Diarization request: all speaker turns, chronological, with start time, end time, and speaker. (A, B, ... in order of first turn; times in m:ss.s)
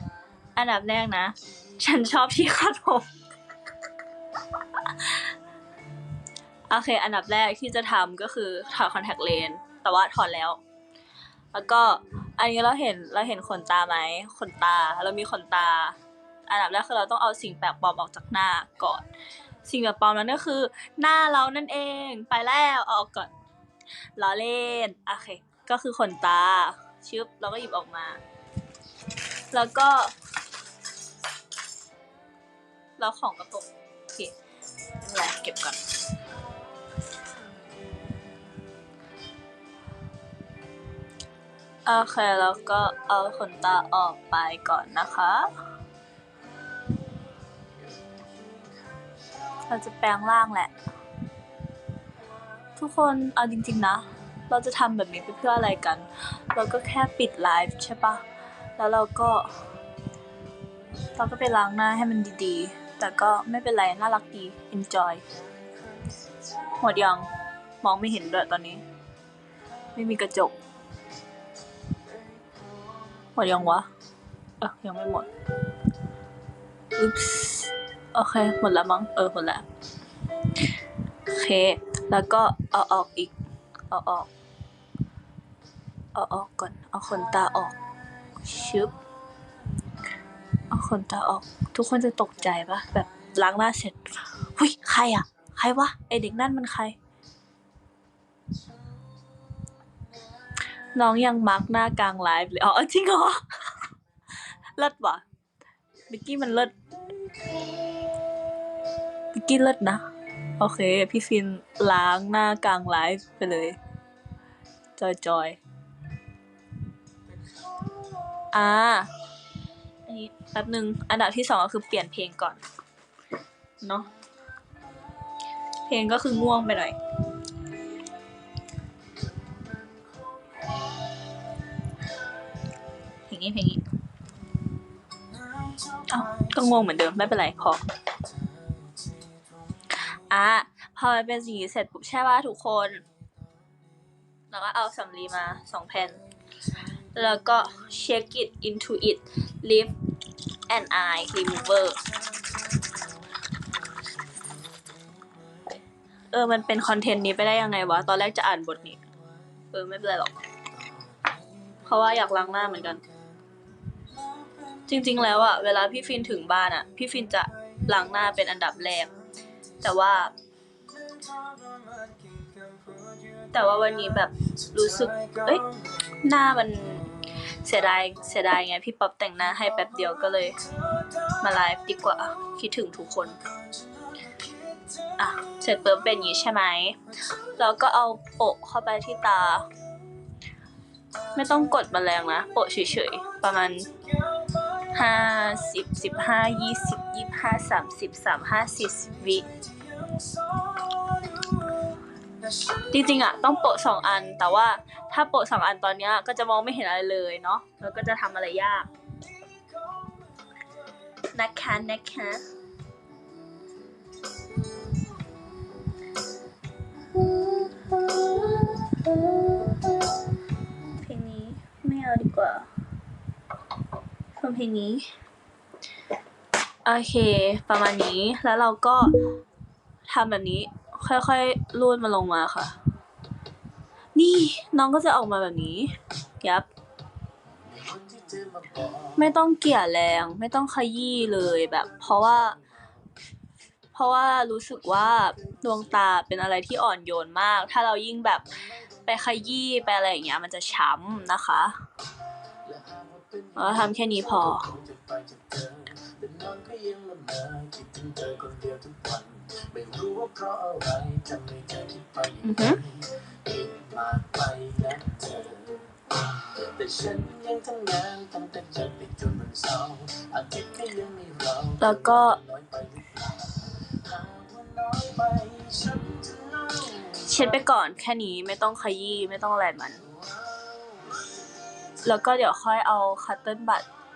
0:00.6-0:03.1 A
0:04.6-0:05.3 A
0:06.7-0:10.6 A
0:11.5-0:19.0 A
0:19.6-0:23.3 A
0:24.2-0:28.2 A
0:29.5-0:30.1 A
0:33.0-0:34.3 A
0:35.0-0:35.8 A
0:41.8-0:45.5 A
0:49.6-0:50.7 A
0:52.8-0:58.2 A
0:58.8-0:59.6 A
1:01.2-1:05.2 A
1:06.7-1:07.3 A
1:07.8-1:08.8 A
1:10.0-1:10.6 A
1:13.4-1:13.9 A
1:14.6-1:15.3 A
1:17.0-1:19.6 A
1:21.3-1:23.3 A
1:23.9-1:24.3 A
1:26.1-1:27.8 A
1:28.3-1:28.9 A
1:30.7-1:37.0 A
1:40.9-1:43.9 A
1:44.5-1:45.2 A
1:46.1-1:46.7 A
1:49.3-1:50.1 A
1:50.6-1:53.8 A
1:55.0-1:55.6 A
1:58.5-1:59.1 A
2:00.1-2:02.6 A
2:03.8-2:04.1 A
2:05.9-2:07.0 A
2:10.0-2:11.1 B
2:13.3-2:13.8 A
2:15.9-2:17.8 A
2:20.0-2:23.0 A
2:24.5-2:26.2 A
2:27.1-2:29.9 A
2:30.7-2:32.0 A
2:36.3-2:39.0 A
2:39.7-2:40.4 A
2:41.8-2:43.0 A
2:44.9-2:49.1 A
2:49.8-2:50.3 A
2:51.7-2:52.2 B
2:53.5-3:03.4 A
3:05.2-3:09.7 A
3:11.3-3:13.9 A
3:14.5-3:19.6 A
3:20.1-3:20.6 B
3:22.8-3:28.9 A
3:31.2-3:32.4 A
3:37.1-3:40.2 A
3:40.8-3:42.7 A
3:44.4-3:45.1 A
3:46.8-3:49.2 A
3:50.1-3:52.8 A
3:54.2-3:56.7 A
3:57.7-3:59.0 B
3:59.2-4:02.6 A
4:04.0-4:08.4 A
4:09.0-4:11.8 A
4:12.7-4:13.5 B
4:13.6-4:14.8 A
4:14.9-4:22.4 B
4:22.4-4:22.8 A
4:23.0-4:31.8 B
4:31.8-4:32.4 A
4:32.5-4:36.8 B
4:37.0-4:40.0 A
4:42.0-4:43.9 A